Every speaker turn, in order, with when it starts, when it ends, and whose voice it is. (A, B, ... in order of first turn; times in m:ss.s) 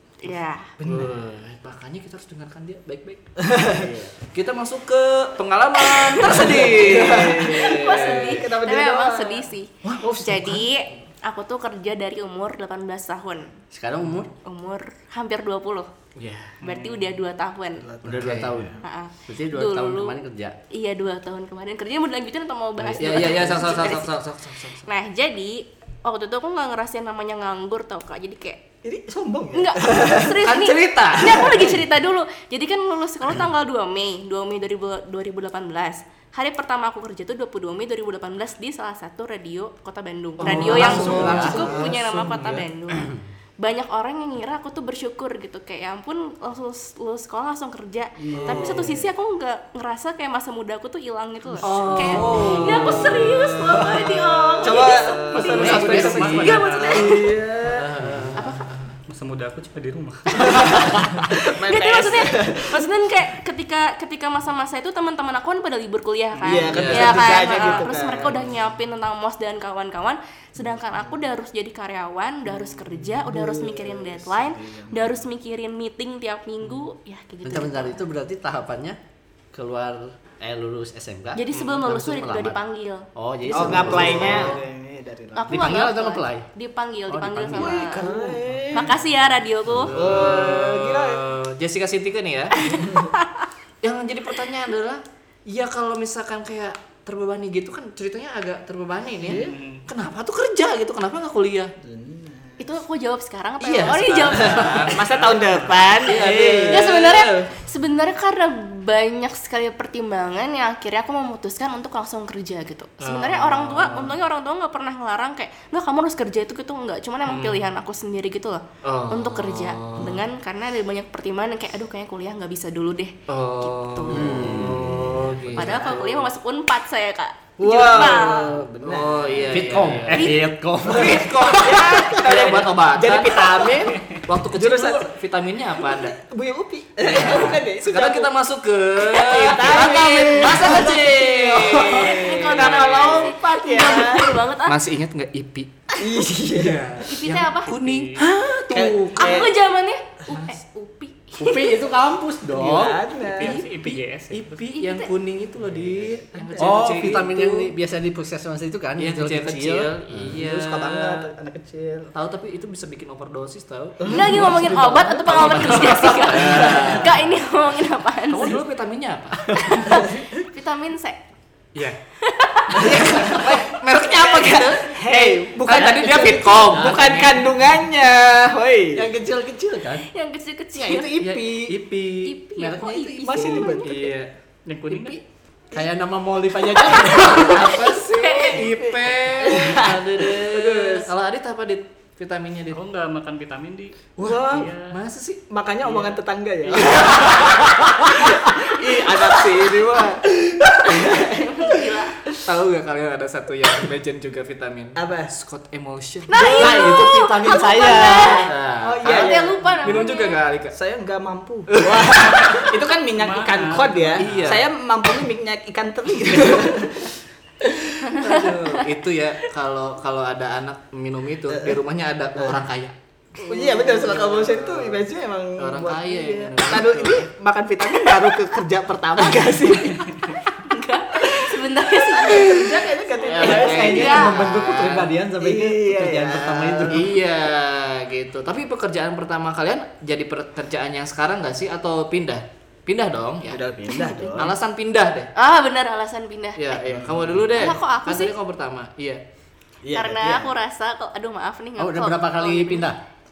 0:00.2-0:00.7 A
0:00.8-0:01.1 B
0:00.8-0:08.5 C
0:03.5-0:04.1 B
0:05.9-0:06.6 A
0:06.3-0:10.6 B
0:07.4-0:13.6 A
0:13.7-0:14.3 D
0:14.4-0:15.9 A
0:16.2-0:17.1 C
0:16.6-0:17.9 A
0:17.8-0:18.8 B
0:18.0-0:20.6 D
0:18.2-0:18.7 C
0:18.8-0:20.2 A
0:20.7-0:24.1 A
0:22.8-0:23.6 D
0:22.9-0:24.9 C
0:24.8-0:28.6 A
0:28.8-0:30.4 B
0:29.5-0:43.1 A
0:30.4-0:31.8 C
0:31.3-0:31.7 B
0:40.4-0:42.7 C
0:40.4-0:42.0 B
0:40.5-0:41.8 D
0:43.6-0:57.3 A
0:48.2-0:49.0 B
0:48.3-0:49.0 C
0:51.6-0:53.5 C
0:51.9-0:57.9 B
0:55.4-0:57.2 E
0:55.5-0:56.5 C
0:57.6-0:58.9 C
0:58.4-0:58.7 A
0:59.1-1:01.3 E
1:00.4-1:02.9 B
1:00.5-1:01.0 A
1:01.6-1:18.0 A
1:06.4-1:08.4 C
1:06.4-1:08.4 B
1:06.4-1:06.7 E
1:10.6-1:11.2 B
1:12.5-1:15.3 B
1:17.4-1:19.0 D
1:19.5-1:22.6 D
1:21.4-1:23.1 A
1:21.5-1:21.8 C
1:23.2-1:24.6 D
1:23.5-1:24.6 C
1:23.5-1:25.7 B
1:23.6-1:24.2 A
1:25.3-1:28.2 A
1:25.5-1:26.5 D
1:27.1-1:28.0 D
1:27.6-1:29.0 B
1:28.7-1:30.0 A
1:29.7-1:30.5 D
1:29.9-1:32.8 C
1:29.9-1:31.2 B
1:32.6-1:33.5 A
1:32.8-1:33.1 B
1:33.8-1:41.7 C
1:39.3-1:39.8 E
1:39.3-1:39.5 B
1:41.8-1:42.7 B
1:42.6-1:45.1 A
1:43.6-1:45.2 C
1:44.2-1:46.9 B
1:45.3-1:45.8 E
1:46.0-1:47.5 C
1:46.7-2:04.6 A
1:53.0-1:54.2 C
1:57.2-1:57.7 C
1:58.8-2:00.2 C
2:03.3-2:06.3 C
2:04.1-2:05.2 D
2:04.6-2:06.3 B
2:05.5-2:08.6 A
2:07.6-2:09.8 B
2:08.8-2:10.3 C
2:09.5-2:11.8 D
2:10.1-2:10.5 A
2:10.8-2:13.5 C
2:10.8-2:14.0 B
2:14.3-2:16.2 C
2:14.5-2:15.1 B
2:15.8-2:18.3 B
2:17.0-2:23.4 C
2:19.0-2:24.4 B
2:21.9-2:24.8 A
2:24.6-2:25.7 C
2:26.0-2:26.8 B
2:26.6-2:29.5 C
2:27.1-2:27.7 A
2:27.7-2:28.3 E
2:28.7-2:29.5 B
2:29.2-2:31.8 A
2:30.3-2:30.6 C
2:31.4-2:33.0 D
2:32.5-2:33.6 B
2:33.2-2:34.7 E
2:33.4-2:37.7 C
2:34.7-2:35.1 A
2:36.3-2:37.1 B
2:36.6-2:40.4 D
2:39.0-2:41.3 C
2:40.3-2:42.1 B
2:42.1-2:44.6 C
2:44.0-2:47.1 B
2:44.0-2:48.6 A
2:45.3-2:47.3 C
2:48.3-2:50.0 C
2:49.5-2:51.2 A
2:50.0-2:50.2 B
2:52.2-2:53.7 A
2:52.7-2:57.4 C
2:52.8-2:59.1 B
2:55.8-2:57.3 D
2:59.0-3:00.1 D
3:00.0-3:01.2 A
3:00.7-3:01.8 D
3:01.2-3:02.3 C
3:02.2-3:04.0 A
3:02.6-3:03.8 D
3:03.2-3:04.0 B
3:03.8-3:04.3 C
3:04.7-3:05.2 E
3:04.9-3:05.2 D
3:05.7-3:07.8 D
3:07.2-3:08.6 A
3:07.4-3:12.8 C
3:08.5-3:11.1 B
3:12.7-3:15.0 E
3:14.2-3:14.7 B
3:14.7-3:17.4 C
3:15.5-3:22.4 B
3:20.9-3:22.2 A
3:22.4-3:26.4 C
3:25.0-3:25.3 B
3:26.3-3:28.5 A
3:26.4-3:28.5 D
3:26.4-3:29.6 B
3:28.2-3:30.8 C
3:29.1-3:30.4 A
3:30.7-3:37.2 B
3:31.7-3:32.7 C
3:33.1-3:34.6 E
3:34.2-3:34.7 C
3:38.1-3:45.0 C
3:38.2-3:38.4 A
3:41.5-3:41.8 B
3:42.4-3:42.6 B
3:43.5-3:50.3 B
3:45.6-3:47.3 C
3:50.5-3:54.4 A
3:51.2-3:54.5 B
3:53.2-3:55.2 C
3:53.4-3:57.1 D
3:55.4-3:57.1 B
3:56.9-4:03.6 C
4:03.5-4:04.5 B
4:03.9-4:04.5 A
4:04.4-4:05.3 C
4:05.4-4:06.8 A
4:06.6-4:09.2 C
4:06.9-4:07.8 B
4:07.5-4:08.4 A
4:09.8-4:10.5 B
4:09.9-4:13.0 A
4:11.8-4:13.0 D